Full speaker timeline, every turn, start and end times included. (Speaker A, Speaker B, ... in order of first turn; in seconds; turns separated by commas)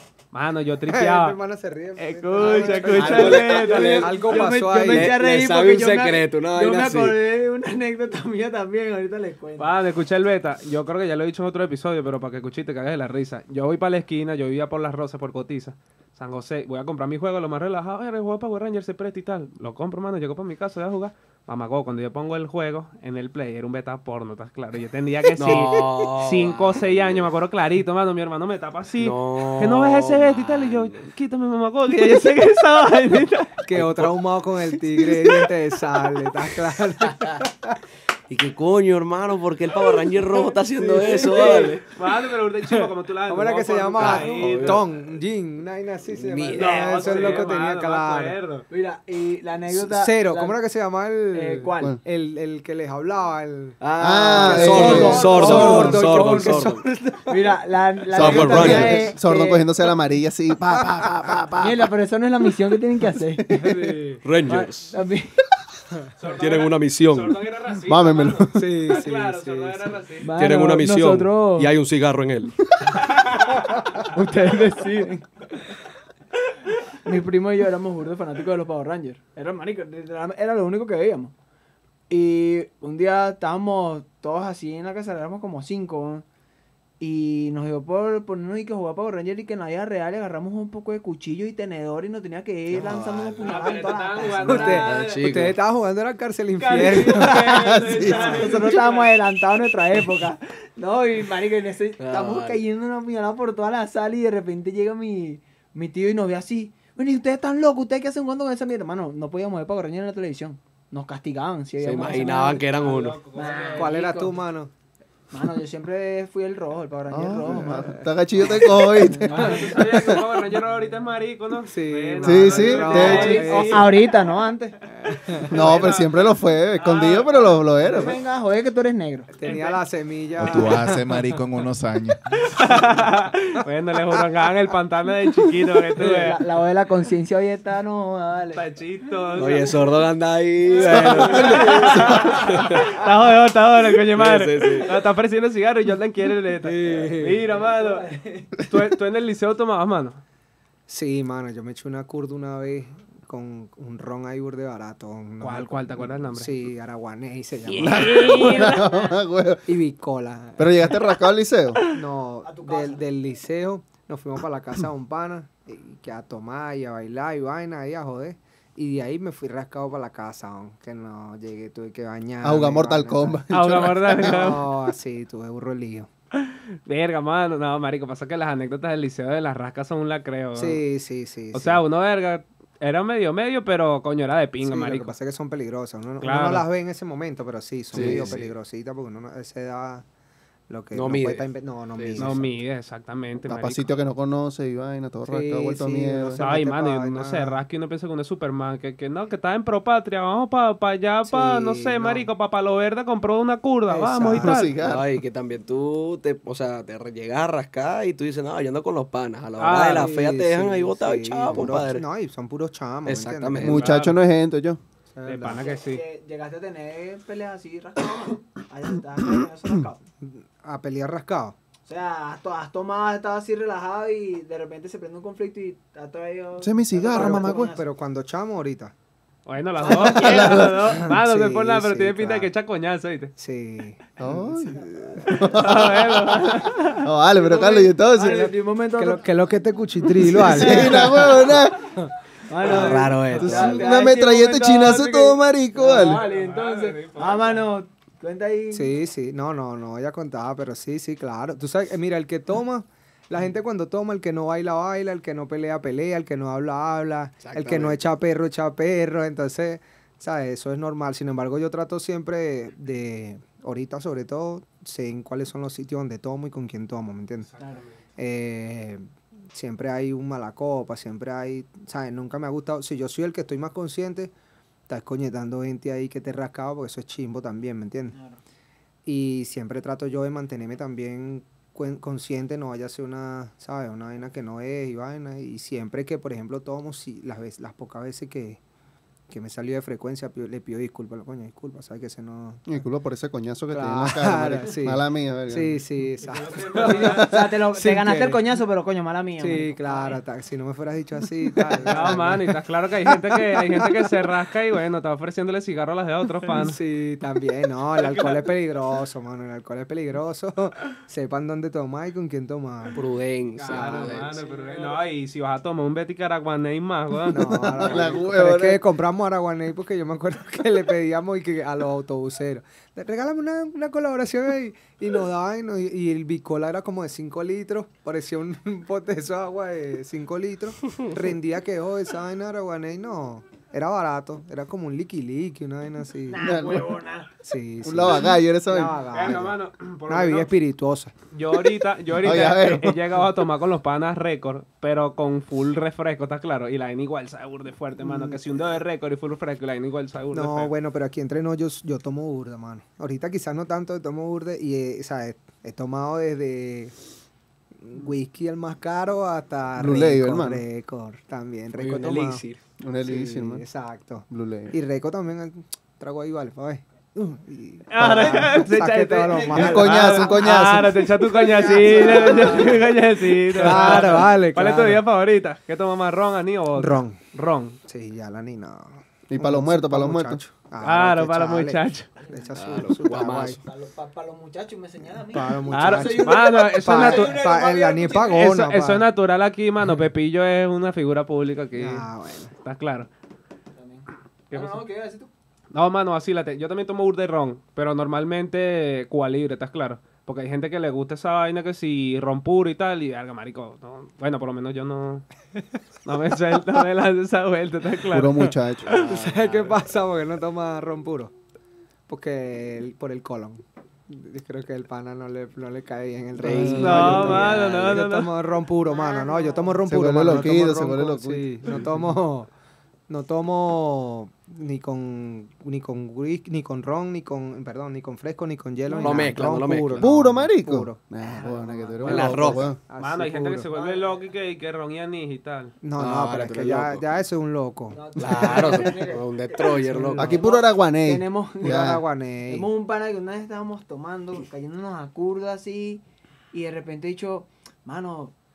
Speaker A: 0.3-1.4, Speaker B: 0.9-5.1, Speaker A: 2.0-4.1, Speaker C: 2.4-9.7, Speaker D: 2.4-4.2, Speaker D: 4.8-7.2, Speaker A: 9.6-33.6, Speaker D: 25.4-27.3, Speaker D: 29.0-31.1, Speaker B: 33.6-37.8, Speaker D: 33.7-34.1, Speaker D: 38.3-41.9, Speaker A: 39.7-44.8, Speaker C: 41.0-41.8, Speaker B: 43.3-48.4, Speaker D: 44.0-44.8, Speaker D: 46.1-47.4, Speaker A: 46.5-48.6, Speaker C: 46.7-47.4, Speaker C: 48.7-50.6, Speaker B: 49.7-53.8, Speaker C: 51.3-51.9, Speaker D: 53.8-56.8, Speaker E: 54.0-56.0, Speaker B: 54.3-57.2, Speaker C: 54.5-59.7, Speaker E: 58.1-61.9, Speaker D: 58.1-59.1, Speaker C: 61.5-63.6, Speaker E: 63.4-63.7, Speaker A: 63.5-64.2, Speaker D: 64.2-64.9, Speaker C: 64.5-65.6, Speaker A: 66.2-70.4, Speaker D: 66.3-67.4, Speaker E: 67.8-68.6, Speaker B: 68.5-70.0, Speaker C: 70.2-71.7, Speaker D: 70.4-72.6, Speaker A: 72.9-73.6, Speaker C: 74.0-75.2, Speaker C: 77.0-81.3, Speaker C: 82.1-86.2, Speaker C: 87.0-95.2, Speaker D: 92.7-93.5, Speaker B: 92.7-93.4, Speaker A: 93.4-95.1, Speaker B: 94.4-97.6, Speaker D: 94.8-95.6, Speaker C: 96.6-112.7, Speaker A: 96.6-99.1, Speaker E: 97.5-98.7, Speaker D: 102.0-102.6, Speaker D: 111.8-113.3, Speaker A: 112.6-114.0, Speaker C: 113.3-114.4, Speaker B: 113.7-114.7, Speaker C: 115.3-118.0, Speaker E: 117.1-120.2, Speaker B: 117.6-118.9, Speaker C: 118.7-119.9, Speaker A: 119.3-124.2, Speaker B: 121.6-123.9, Speaker E: 122.2-123.4, Speaker C: 122.7-124.8, Speaker B: 124.9-125.5, Speaker A: 125.0-127.6, Speaker E: 125.5-128.2, Speaker C: 127.8-129.3, Speaker B: 129.3-131.2, Speaker A: 129.4-129.8, Speaker F: 130.4-132.5, Speaker A: 132.4-136.4, Speaker C: 136.0-138.6, Speaker A: 138.5-139.8, Speaker D: 139.3-142.9, Speaker A: 140.7-150.2, Speaker C: 141.2-141.7, Speaker D: 144.1-144.9, Speaker B: 146.7-147.4, Speaker C: 146.8-148.6, Speaker B: 150.9-158.5, Speaker A: 155.4-156.6, Speaker A: 157.7-159.1, Speaker E: 157.8-159.7, Speaker B: 159.7-161.0, Speaker E: 160.6-161.8, Speaker B: 161.9-173.4, Speaker C: 162.4-163.0, Speaker E: 172.4-174.5, Speaker A: 173.5-174.7, Speaker B: 174.2-176.1, Speaker A: 176.3-180.8, Speaker B: 180.5-181.8, Speaker A: 181.5-185.1, Speaker B: 184.6-190.1, Speaker A: 186.2-186.7, Speaker E: 187.9-188.3, Speaker D: 187.9-188.5, Speaker B: 190.7-192.5, Speaker D: 190.9-191.4, Speaker D: 192.0-192.4, Speaker A: 192.2-193.9, Speaker E: 193.5-196.4, Speaker B: 195.2-197.6, Speaker A: 196.4-204.7, Speaker B: 201.2-202.3, Speaker B: 203.9-204.7, Speaker E: 204.3-205.1, Speaker D: 204.8-212.0, Speaker A: 209.6-210.1, Speaker B: 209.9-213.8, Speaker E: 211.5-211.8, Speaker D: 213.1-213.9, Speaker E: 213.6-214.8, Speaker A: 213.7-214.2, Speaker B: 215.1-215.7, Speaker A: 215.2-216.0, Speaker C: 215.6-220.0, Speaker E: 219.3-219.8, Speaker B: 220.2-221.6, Speaker C: 221.9-227.8, Speaker E: 226.6-227.7, Speaker B: 227.1-228.9, Speaker A: 229.4-233.3, Speaker E: 229.9-230.9, Speaker B: 229.9-232.5, Speaker C: 230.1-230.4, Speaker B: 233.3-235.7, Speaker E: 234.2-238.5, Speaker A: 235.2-237.1, Speaker C: 237.3-239.2, Speaker B: 238.3-242.1, Speaker E: 240.2-241.8, Speaker C: 242.5-248.9, Speaker D: 242.6-243.8, Speaker E: 243.3-246.2, Speaker A: 245.9-247.6, Speaker B: 248.7-267.5, Speaker D: 257.4-258.0, Speaker A: 267.4-268.0, Speaker C: 267.6-267.8, Speaker B: 268.2-274.3, Speaker B: 274.9-278.1, Speaker C: 278.1-278.4, Speaker B: 279.1-288.6, Speaker B: 289.3-292.9, Speaker E: 292.6-295.8, Speaker B: 293.7-298.4, Speaker A: 296.2-297.3, Speaker C: 296.7-300.2, Speaker B: 299.4-302.5, Speaker C: 301.6-302.1, Speaker A: 301.9-306.8, Speaker B: 303.2-303.9, Speaker B: 306.5-313.0, Speaker C: 308.0-308.4, Speaker D: 312.9-314.3, Speaker A: 313.6-318.0, Speaker B: 313.7-314.4, Speaker C: 314.3-315.0, Speaker E: 317.1-318.8, Speaker B: 317.3-336.4, Speaker C: 336.3-337.3, Speaker E: 336.4-336.9, Speaker B: 337.4-339.6, Speaker E: 337.8-339.0, Speaker A: 339.1-340.5, Speaker B: 340.1-341.1, Speaker A: 341.3-350.7, Speaker E: 342.2-343.2, Speaker B: 348.0-348.4, Speaker B: 350.3-356.9, Speaker B: 357.8-362.4, Speaker E: 359.8-360.6, Speaker D: 361.8-362.6, Speaker E: 362.8-363.6, Speaker B: 363.0-370.5, Speaker E: 364.3-364.7, Speaker A: 367.9-377.8, Speaker E: 369.5-371.1, Speaker B: 371.4-372.9, Speaker C: 371.8-372.6, Speaker B: 373.5-375.0, Speaker C: 373.7-374.2, Speaker B: 376.8-377.2, Speaker B: 377.9-383.6, Speaker E: 379.3-380.4, Speaker A: 380.8-382.1, Speaker D: 382.5-383.6, Speaker C: 383.6-388.4, Speaker B: 385.2-389.1, Speaker A: 385.7-387.4, Speaker A: 388.3-393.1, Speaker B: 391.7-392.5, Speaker C: 393.7-395.3, Speaker A: 394.5-394.8, Speaker A: 395.7-405.3, Speaker A: 406.0-409.1, Speaker E: 408.1-408.9, Speaker B: 408.9-411.3, Speaker B: 412.1-422.5, Speaker D: 416.4-418.0, Speaker C: 416.5-417.4, Speaker A: 416.8-418.3, Speaker C: 418.8-420.5, Speaker E: 419.9-422.2, Speaker B: 423.1-431.0, Speaker C: 428.9-429.2, Speaker D: 429.0-430.1, Speaker E: 430.0-432.8, Speaker C: 431.2-432.3, Speaker D: 432.0-432.7, Speaker B: 432.0-433.7, Speaker A: 433.0-435.8, Speaker C: 433.7-434.3, Speaker B: 435.8-438.3, Speaker D: 436.0-437.0, Speaker C: 437.9-448.3, Speaker D: 438.2-440.4, Speaker E: 440.2-442.0, Speaker B: 441.6-442.7